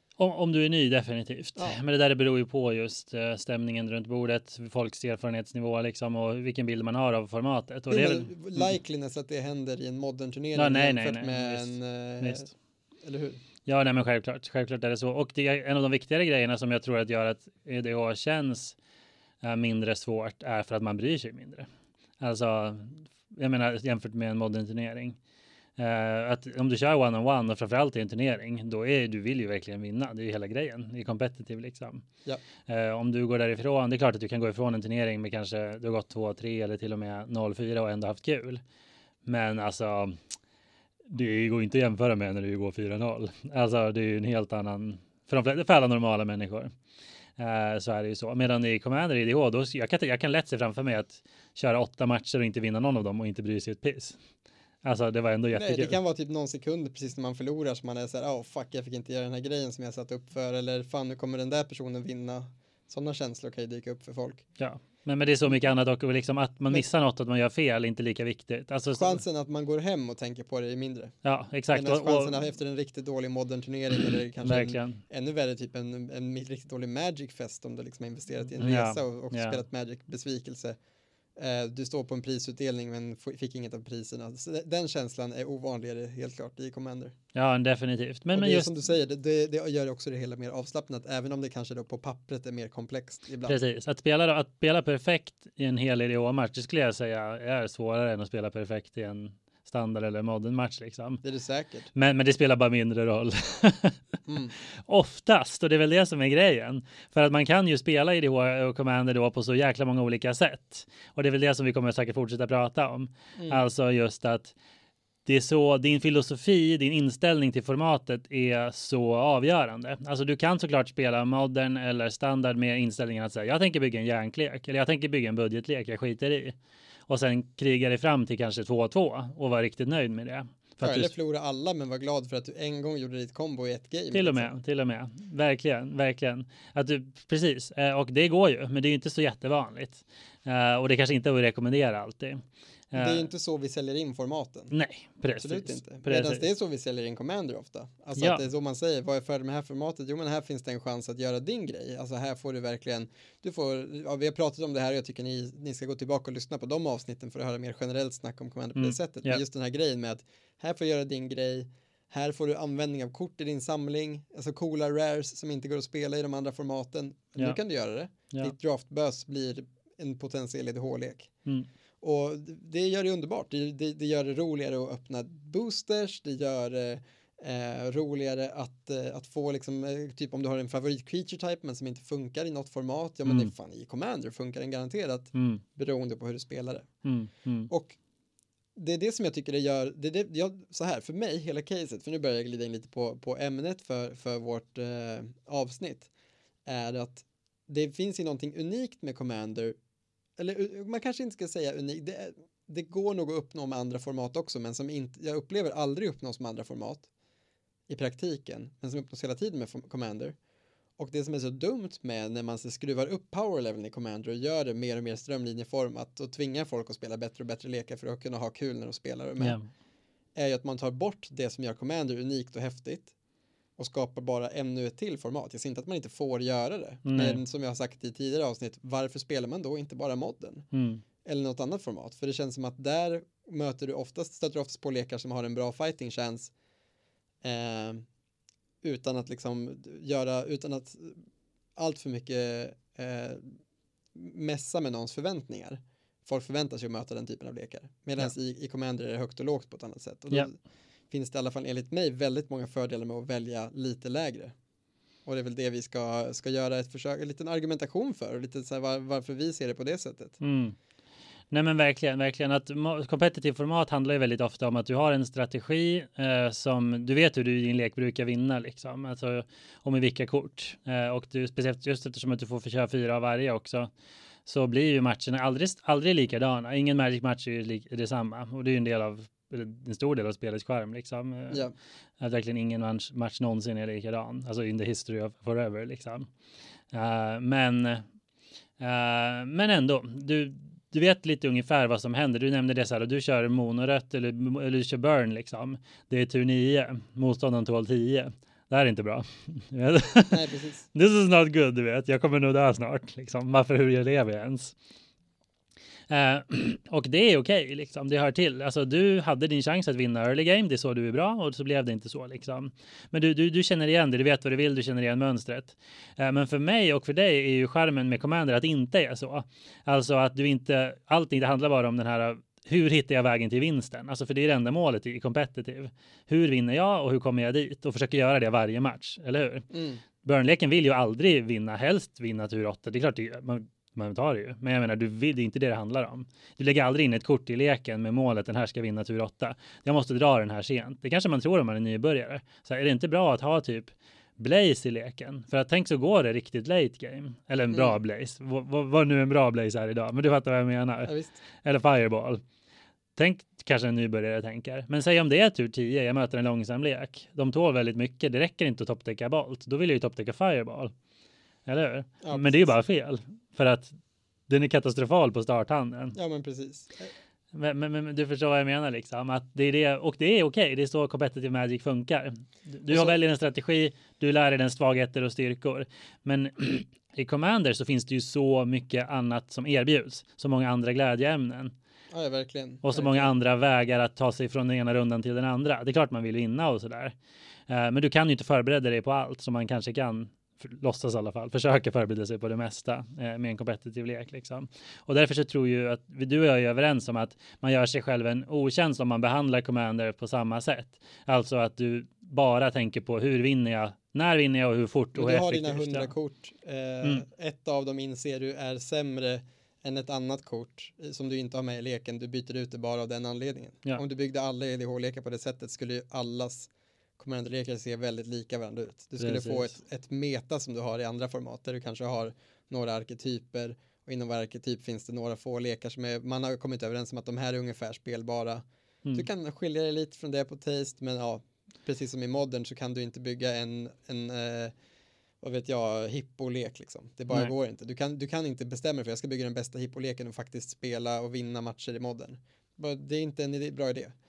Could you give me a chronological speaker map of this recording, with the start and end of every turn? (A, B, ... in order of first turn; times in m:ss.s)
0:00.2-0:08.8 A
0:07.9-0:12.5 B
0:10.6-0:12.5 A
0:13.0-0:13.4 B
0:13.7-0:18.8 A
0:19.4-0:21.7 A
0:22.2-0:25.2 A
0:25.8-0:32.0 A
0:32.7-0:38.6 A
0:39.3-0:40.2 A
0:41.1-0:46.7 A
0:47.4-0:54.2 A
0:54.8-0:56.0 A
0:55.5-1:04.5 B
1:04.6-1:09.2 A
1:08.9-1:11.1 B
1:11.2-1:12.4 A
1:11.7-1:20.8 B
1:14.4-1:15.0 A
1:18.6-1:19.6 A
1:21.4-1:27.2 B
1:27.3-1:28.7 A
1:28.3-1:33.6 B
1:33.5-1:41.2 A
1:41.2-1:41.9 B
1:41.9-1:44.0 A
1:44.3-1:44.6 B
1:44.8-1:54.5 A
1:53.4-1:53.6 B
1:55.3-2:06.6 A
2:07.1-2:11.1 A
2:10.8-2:14.5 B
2:14.1-2:23.3 A
2:23.0-2:24.7 B
2:24.7-2:26.5 A
2:25.4-2:51.3 B
2:28.2-2:28.4 A
2:38.8-2:39.4 A
2:52.0-3:06.9 B
3:03.3-3:03.5 A
3:05.3-3:05.6 A
3:07.0-3:07.7 A
3:07.7-3:08.0 B
3:08.8-3:16.1 B
3:16.7-3:19.8 B
3:20.4-3:27.1 B
3:27.9-3:30.4 B
3:31.0-3:39.6 B
3:39.4-3:39.7 A
3:40.4-3:43.1 B
3:43.8-3:50.7 B
3:47.0-3:47.4 A
3:50.7-3:51.0 A
3:51.2-3:56.5 B
3:57.4-3:58.0 B
3:58.8-4:01.2 B
4:01.8-4:03.6 B
4:04.1-4:10.5 B
4:11.1-4:14.5 B
4:15.3-4:20.4 B
4:20.4-4:20.8 A
4:21.5-4:33.9 A
4:34.5-4:41.7 A
4:42.2-4:46.3 A
4:46.9-4:48.0 A
4:48.8-5:00.4 A
5:00.3-5:00.9 B
5:00.9-5:04.8 A
5:06.1-5:29.7 A
5:29.7-5:30.0 B
5:30.2-5:52.4 A
5:47.7-5:48.0 B
5:51.1-5:51.4 B
5:53.2-6:00.9 A
6:01.7-6:03.9 A
6:02.2-6:02.8 B
6:04.5-6:06.2 A
6:06.2-6:07.1 B
6:07.5-6:21.7 A
6:12.9-6:13.2 B
6:22.1-6:23.3 B
6:22.8-6:27.2 A
6:27.7-6:46.1 A
6:45.2-7:14.7 B
6:59.2-6:59.7 A
7:15.4-7:24.1 B